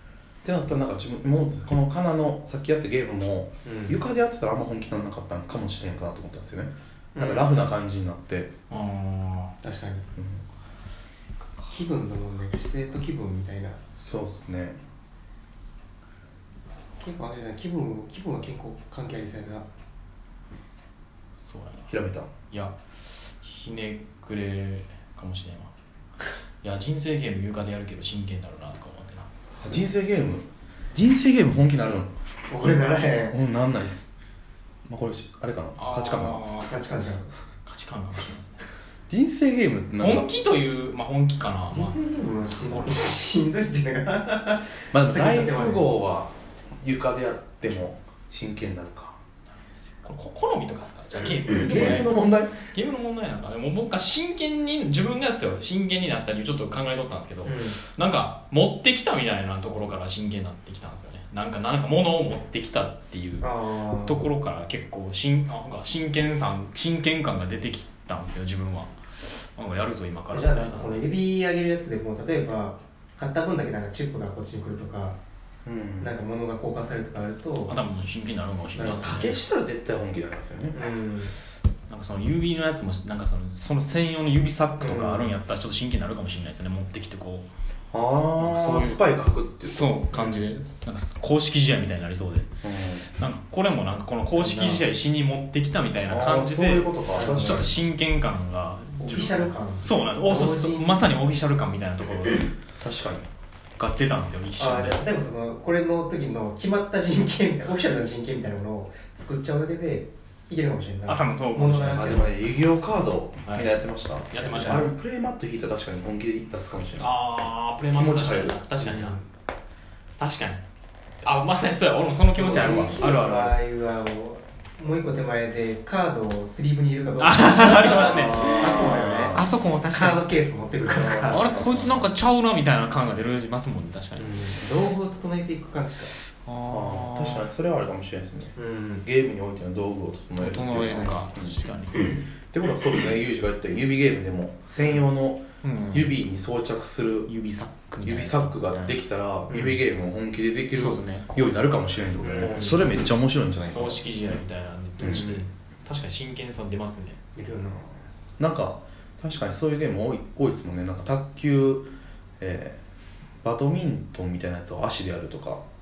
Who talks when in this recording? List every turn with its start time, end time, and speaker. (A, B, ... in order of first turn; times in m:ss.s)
0:00.4-0:08.5 A
0:03.6-0:04.0 B
0:07.1-0:07.6 B
0:08.7-0:09.5 C
0:09.6-0:10.0 B
0:10.2-0:10.4 A
0:11.7-0:13.8 B
0:14.0-0:14.8 A
0:17.0-0:19.6 B
0:21.4-0:21.9 C
0:21.9-0:22.3 A
0:22.5-0:25.7 C
0:26.6-0:29.3 C
0:29.6-0:32.1 A
0:32.5-0:33.4 B
0:33.3-0:34.1 A
0:34.9-0:36.4 A
0:35.8-0:36.7 C
0:36.6-0:37.3 B
0:37.6-0:38.6 C
0:39.1-0:40.3 A
0:40.0-0:42.0 C
0:41.7-0:45.9 B
0:42.6-0:43.2 C
0:44.9-0:49.2 A
0:49.8-1:11.0 C
0:51.5-0:52.6 A
0:57.4-0:57.8 B
1:03.4-1:04.3 B
1:10.3-1:15.2 B
1:15.6-1:16.1 A
1:16.0-1:17.8 B
1:17.7-1:19.3 C
1:18.7-1:19.2 B
1:19.0-1:20.8 A
1:20.7-1:21.4 B
1:21.9-1:27.5 C
1:24.8-1:25.4 B
1:27.9-1:30.4 A
1:28.3-1:29.1 C
1:29.6-1:32.5 C
1:32.6-1:33.1 A
1:33.1-1:42.5 C
1:34.3-1:34.8 B
1:36.0-1:37.8 A
1:37.1-1:37.7 B
1:39.0-1:41.0 B
1:42.8-1:43.3 A
1:43.8-1:45.1 C
1:44.6-1:52.4 B
1:51.1-1:52.3 C
1:51.9-1:57.1 A
1:53.4-1:53.7 C
1:54.3-1:54.8 C
1:54.4-1:54.9 B
1:57.0-1:59.2 C
1:57.9-1:58.6 A
1:58.8-1:59.2 B
2:00.2-2:00.6 C
2:01.2-2:03.6 C
2:02.3-2:03.1 A
2:02.4-2:11.5 B
2:07.2-2:10.2 C
2:08.1-2:09.5 A
2:11.2-2:12.1 A
2:11.3-2:14.3 C
2:14.2-2:16.1 B
2:16.4-2:17.4 C
2:16.6-2:27.3 A
2:18.6-2:19.0 B
2:20.4-2:22.2 C
2:20.6-2:21.2 B
2:25.6-2:26.2 C
2:27.3-2:29.0 C
2:28.0-2:34.0 A
2:29.5-2:29.8 B
2:30.7-2:32.8 C
2:32.3-2:32.8 B
2:33.7-2:37.2 C
2:35.0-2:35.3 A
2:35.0-2:35.4 B
2:37.4-2:38.0 B
2:38.4-2:42.8 A
2:43.4-2:45.6 A